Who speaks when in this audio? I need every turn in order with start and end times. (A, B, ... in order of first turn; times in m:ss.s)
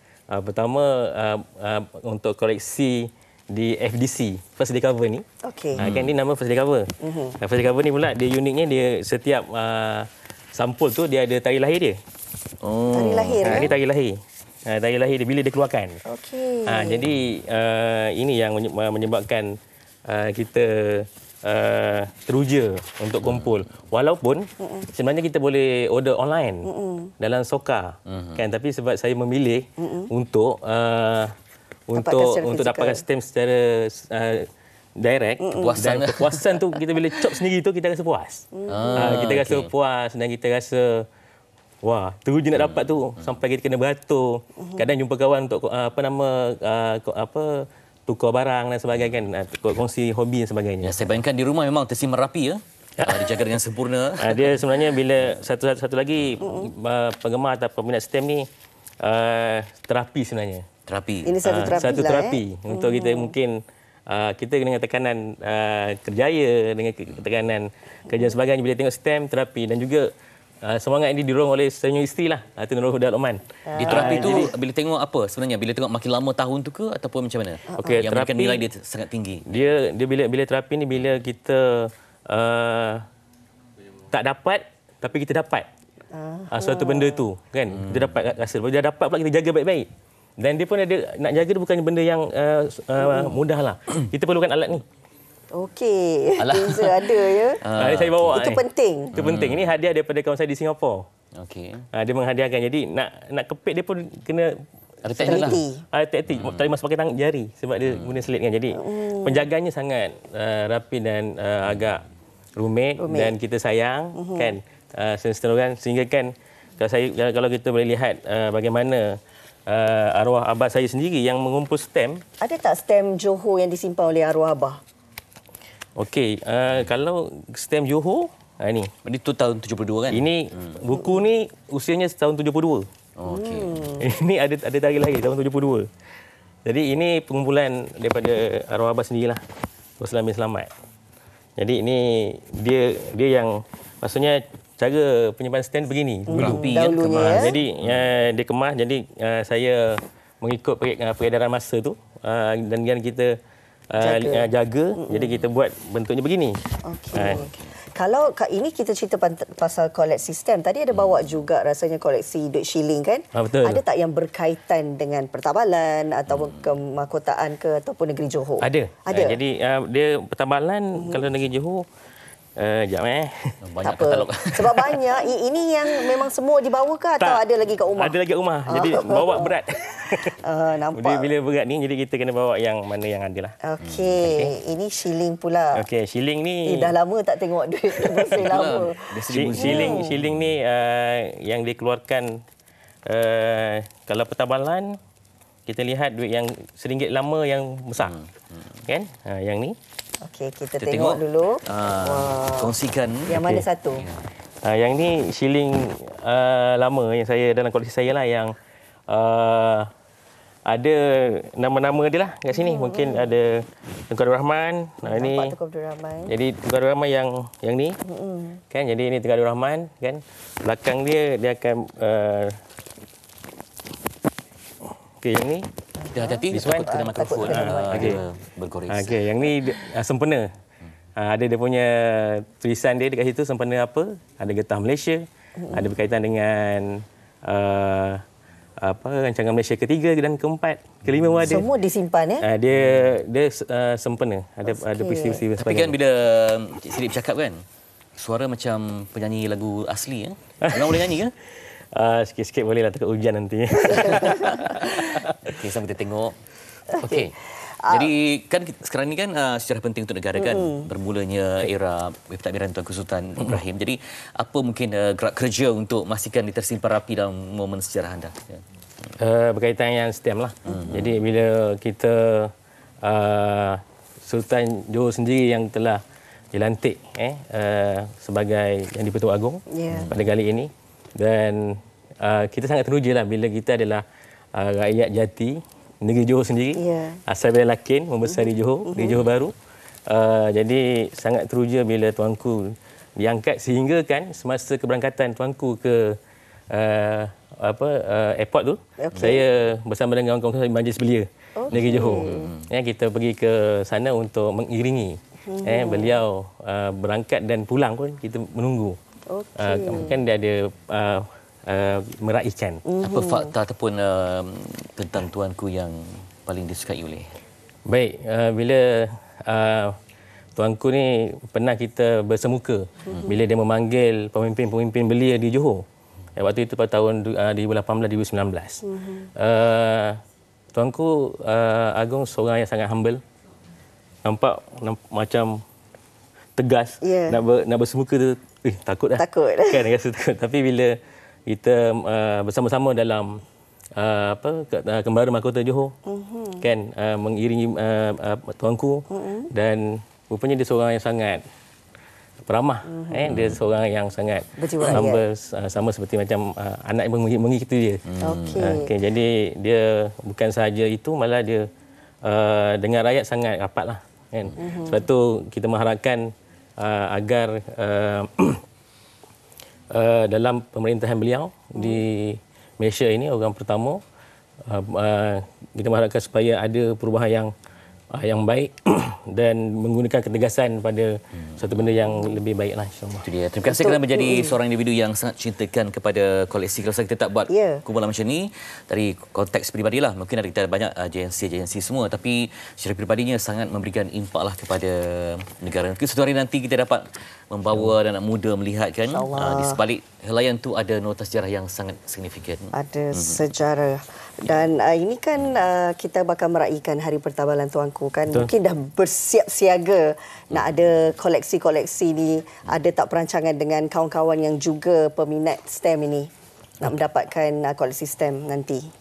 0:00.3-0:05.2 A
0:05.4-0:05.8 B
0:05.8-0:06.1 C
0:05.8-0:12.0 A
0:07.0-0:07.4 B
0:12.6-0:13.7 C
0:12.9-0:13.7 B
0:13.4-0:16.0 A
0:16.0-0:17.1 B
0:16.6-0:31.3 A
0:24.6-0:24.9 B
0:26.6-0:27.1 B
0:28.0-0:28.4 C
0:29.8-0:30.1 B
0:31.9-0:41.1 A
0:31.9-0:33.0 B
0:35.4-0:35.8 B
0:35.5-0:36.6 C
0:38.5-0:39.1 B
0:38.7-0:39.7 C
0:41.8-0:51.1 A
0:42.5-0:43.3 C
0:50.8-0:54.6 C
0:53.0-0:53.4 A
0:54.2-0:58.5 A
0:56.4-0:56.7 B
0:59.0-1:00.6 A
1:00.8-1:01.8 C
1:01.2-1:03.3 B
1:01.4-1:10.1 A
1:10.6-1:14.5 A
1:13.7-1:14.5 B
1:13.8-1:19.6 C
1:17.7-1:18.0 B
1:17.8-1:18.6 A
1:19.4-1:23.0 A
1:24.1-1:25.7 A
1:26.1-1:27.3 B
1:26.5-1:29.9 A
1:27.8-1:28.1 C
1:30.4-1:34.8 A
1:33.0-1:33.4 B
1:35.5-1:37.6 B
1:36.4-1:38.5 C
1:37.7-1:41.0 A
1:38.3-1:39.2 B
1:39.1-1:39.7 C
1:41.4-1:41.8 C
1:41.9-1:52.0 A
1:45.0-1:45.6 C
1:45.2-1:45.8 B
1:46.3-1:46.7 C
1:47.9-1:48.2 C
1:48.7-1:49.5 B
1:52.6-2:02.2 A
1:53.0-1:53.3 B
1:54.2-1:54.6 B
2:02.4-2:04.8 B
2:06.0-2:08.9 A
2:09.0-2:10.8 C
2:10.1-2:12.8 A
2:13.2-2:13.9 C
2:13.3-2:14.0 B
2:14.0-2:15.9 A
2:16.6-2:19.4 A
2:20.0-2:20.7 A
2:21.6-2:33.3 A
2:26.3-2:27.5 B
2:26.3-2:28.1 C
2:33.9-2:36.6 A
2:34.0-2:35.3 B
2:36.8-2:49.4 B
2:37.1-2:37.5 A
2:37.2-2:37.7 C
2:40.9-2:41.2 C
2:43.3-2:43.8 A
2:46.3-2:46.6 C
2:48.6-2:51.8 A
2:52.6-2:53.5 A
2:53.6-2:55.0 C
2:53.8-2:59.5 B
2:57.9-3:00.4 A
3:00.4-3:01.3 B
3:00.9-3:03.6 A
3:03.6-3:05.8 B
3:03.8-3:04.3 C
3:04.2-3:04.5 A
3:05.7-3:06.9 A
3:06.6-3:10.2 B
3:08.0-3:08.5 A
3:08.4-3:10.5 C
3:09.3-3:12.4 A
3:13.1-3:15.0 A
3:15.7-3:18.2 A
3:18.0-3:18.6 C
3:18.9-3:19.8 A
3:20.2-3:22.8 B
3:20.8-3:23.5 C
3:23.3-3:24.0 B
3:23.4-3:23.6 A
3:24.0-3:24.2 C
3:24.6-3:28.5 A
3:29.1-3:29.9 A
3:30.7-3:35.6 A
3:32.5-3:33.3 B
3:35.0-3:36.3 B
3:36.3-3:38.0 A
3:38.0-3:38.6 B
3:38.7-3:42.6 A
3:45.2-3:45.7 A
3:46.0-3:48.2 B
3:46.1-3:49.7 C
3:46.5-3:48.2 A
3:48.9-3:50.5 A
3:51.2-3:58.2 A
3:55.6-3:55.9 B
3:58.8-4:01.7 A
4:01.4-4:02.4 B
4:02.4-4:06.0 A
4:04.6-4:05.5 B
4:05.6-4:07.6 C
4:08.2-4:11.3 C
4:10.6-4:11.1 A
4:11.9-4:15.5 A
4:14.4-4:16.4 C
4:16.9-4:28.6 C
4:16.9-4:18.1 B
4:20.4-4:20.9 B
4:29.2-4:32.5 A
4:30.7-4:31.2 C
4:33.0-4:44.0 A
4:39.7-4:40.1 B
4:39.9-4:40.2 C
4:44.5-4:49.5 A
4:46.7-4:47.2 B
4:48.2-4:49.2 B
4:50.1-4:56.2 A
4:56.7-5:09.0 A
4:59.0-4:59.4 B
5:01.6-5:02.5 B
5:01.7-5:02.7 C
5:05.4-5:06.2 B
5:09.3-5:10.2 B
5:09.6-5:12.8 A
5:12.8-5:13.5 B
5:13.0-5:17.3 C
5:17.8-5:20.0 A
5:20.6-5:25.8 A
5:26.4-5:30.2 A
5:28.8-5:29.3 B
5:30.7-5:33.2 A
5:34.2-5:35.6 A
5:36.6-5:41.0 A
5:37.0-5:37.4 B
5:39.2-5:39.9 B
5:41.5-5:43.4 A
5:44.0-5:45.9 A
5:46.0-5:46.6 B
5:46.6-5:51.4 A
5:49.1-5:49.5 B
5:52.4-6:01.7 A
5:52.9-5:53.3 B
5:53.3-5:53.6 C
5:54.6-5:55.2 B
5:58.0-5:58.7 C
5:58.2-5:58.9 B
6:02.2-6:08.6 A
6:04.6-6:05.0 B
6:09.9-6:14.0 A
6:14.7-6:17.5 A
6:18.1-6:23.2 A
6:21.4-6:21.8 C
6:23.2-6:43.4 C
6:23.6-6:24.6 B
6:27.5-6:27.8 B
6:39.1-6:39.8 B
6:42.7-6:58.9 B